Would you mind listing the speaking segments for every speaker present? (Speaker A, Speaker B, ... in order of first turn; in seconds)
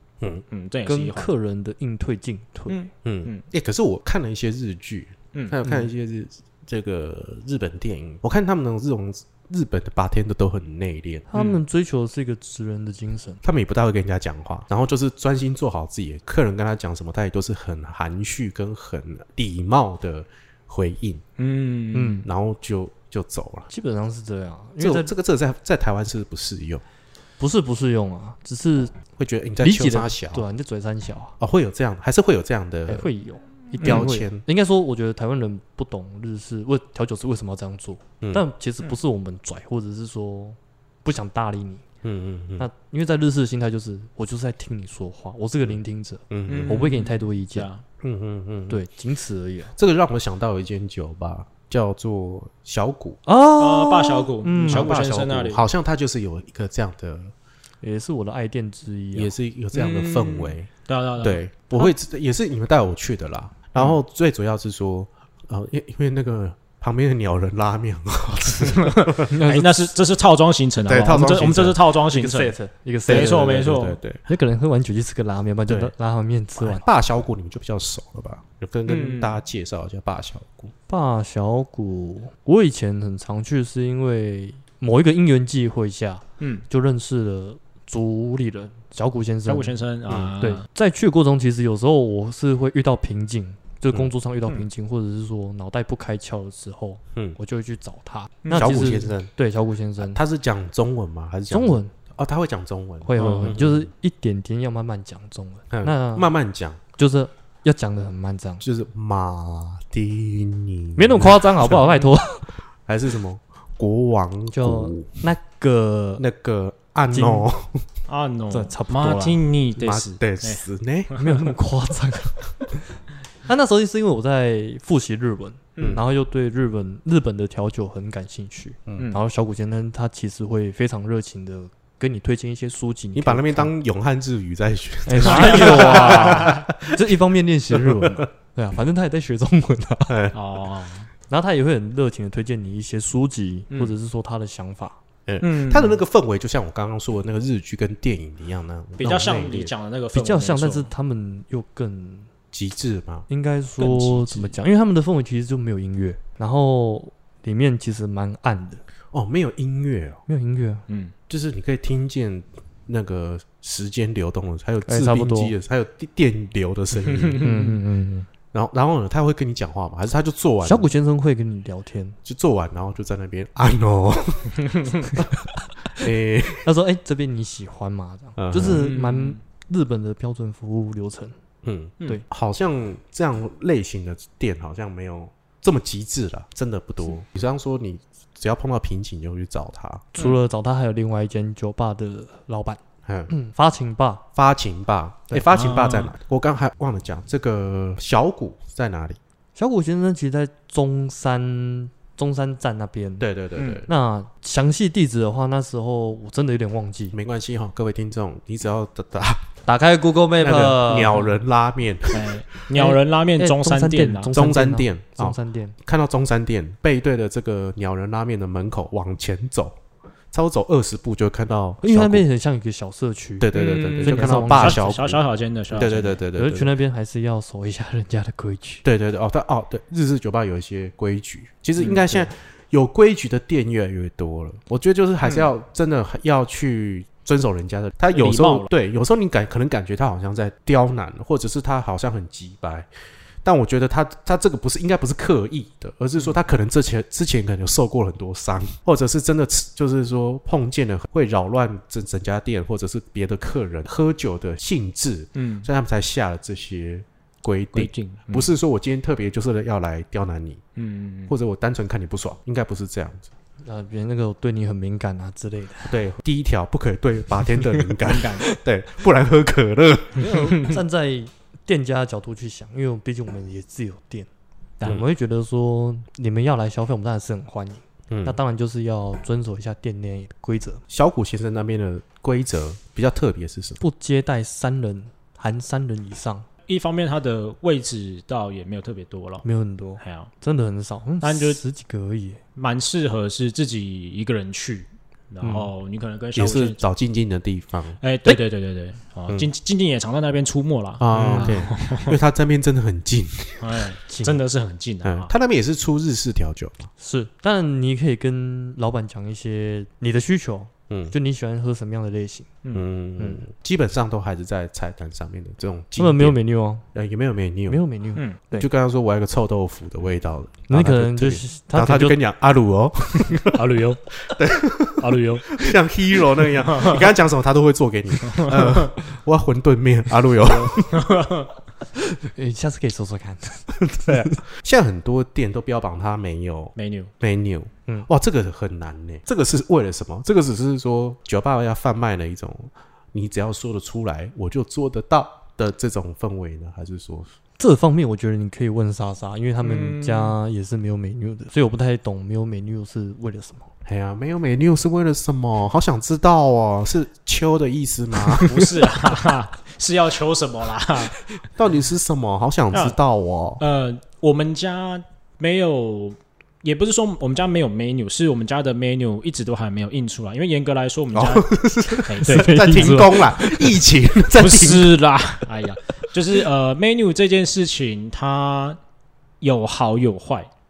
Speaker A: 0.5-1.3, 2.7-3.4, 5.3-5.6, 11.3-11.6, 21.4-22.2, 33.8-34.1, 46.5-47.8, 53.6-55.7, 59.7-61.9, 68.6-72.5, 73.1-74.0, 78.9-79.4, 86.4-86.6, 89.5-90.6, 98.4-98.7, 103.2-103.6, 118.1-121.4, 135.2-136.6, 140.3-141.1, 145.4-146.0, 149.0-150.9, 153.8-154.5, 160.9-161.1, 167.0-167.8, 174.7-175.1, 178.7-179.4, 195.5-196.1, 203.6-203.8, 212.1-214.3, 223.5-226.2, 238.1-238.7, 255.3-255.7, 257.7-258.5, 260.8-261.3, 268.0-268.4, 286.7-289.4, 290.0-290.3, 291.2-291.6, 292.6-296.8, 298.0-302.2, 303.6-305.3, 323.5-324.0, 325.0-325.5, 326.6-327.0, 328.3-328.9, 330.5-331.5, 336.8-337.1, 349.6-350.3, 358.3-361.2, 363.6-371.5, 372.0-373.1, 374.3-378.8, 379.4-380.5
Speaker B: 0.8-2.8, 11.3-13.4, 21.9-22.3, 23.7-25.1, 27.4-28.9, 29.6-31.4, 32.9-41.8, 42.6-47.7, 48.7-49.7, 53.2-55.0, 57.8-59.3, 69.3-69.9, 72.1-73.4, 74.3-76.8, 80.9-89.8, 90.4-100.2, 101.5-101.9, 103.0-106.3, 107.0-108.6, 111.0-112.5, 114.5-116.2, 117.1-117.5, 118.5-119.4, 121.2-122.8, 123.5-133.7, 135.1-140.2, 141.3-145.0, 150.1-152.3, 153.3-158.8, 160.3-160.8, 164.8-165.5, 167.4-168.3, 170.6-172.2, 175.2-176.0, 176.6-181.3, 190.1-194.2, 199.6-203.3, 203.8-207.2, 209.7-211.3, 212.7-215.8, 221.8-225.0, 226.3-228.8, 231.9-232.3, 263.6-265.9, 270.1-274.3, 274.8-280.8, 283.8-286.4, 289.4-292.4, 295.4-295.7, 301.1-301.6, 304.1-304.4, 307.0-312.5, 316.0-316.9, 317.7-318.7, 320.7-322.2, 331.9-334.4, 347.6-353.7, 372.2-373.7
Speaker C: 3.0-11.3, 13.4-21.2, 22.2-23.7, 24.8-26.8, 29.2-30.4, 31.4-33.1, 33.8-34.4, 42.0-42.6, 46.3-46.8, 48.0-48.8, 49.8-53.2, 54.6-57.3, 59.1-60.7, 61.2-69.3, 70.8-71.8, 73.1-74.2, 75.7-75.9, 76.6-80.7, 98.5-99.3, 100.0-103.9, 105.7-106.8, 108.6-112.1, 112.8-115.2, 116.2-117.8, 119.8-121.1, 133.1-137.1, 137.7-138.2, 140.1-140.4, 145.2-149.7, 152.5-153.3, 159.1-160.2, 161.3-167.5, 168.5-170.9, 172.2-175.4, 175.9-176.7, 178.4-178.9, 181.6-190.1, 193.0-193.3, 194.3-199.2, 203.2-203.9, 207.1-209.5, 210.4-212.3, 214.3-219.7, 220.3-222.2, 223.4-226.7, 228.8-242.9, 243.4-260.6, 261.3-263.3, 265.9-270.3, 278.1-278.4, 280.9-283.8, 296.4-298.0, 301.0-303.8, 305.0-306.9, 310.9-311.1, 312.7-316.4, 316.9-317.8, 318.5-323.6, 324.3-331.1, 334.1-347.3, 353.8-359.2, 361.6-363.6, 371.1-374.9